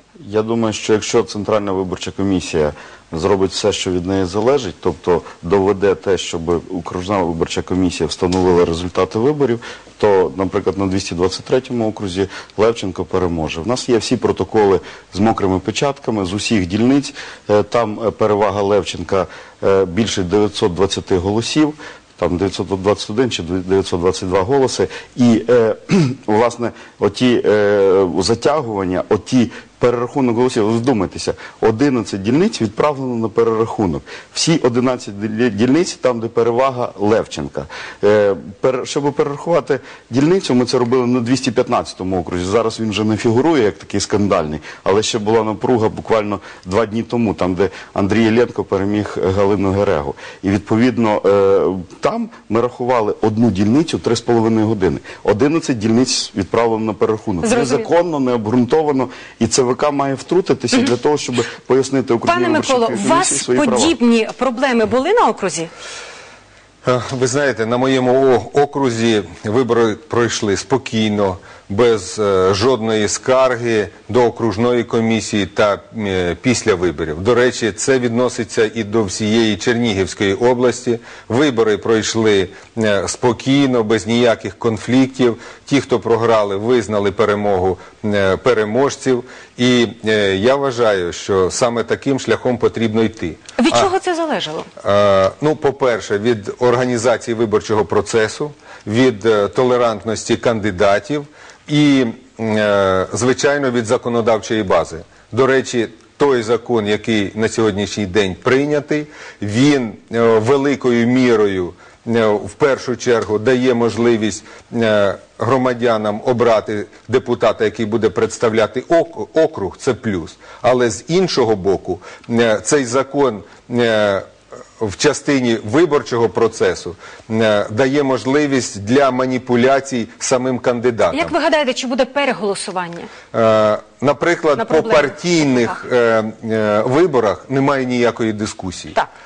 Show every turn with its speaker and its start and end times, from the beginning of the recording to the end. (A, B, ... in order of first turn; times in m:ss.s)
0:00.2-1:04.0 A
0:57.4-0:57.9 B
1:02.2-1:05.7 B
1:06.8-1:33.9 C
1:33.6-1:34.7 B
1:34.8-2:04.3 C
2:04.8-2:11.3 C
2:11.1-2:13.1 B
2:13.3-2:18.9 C
2:14.6-2:15.8 B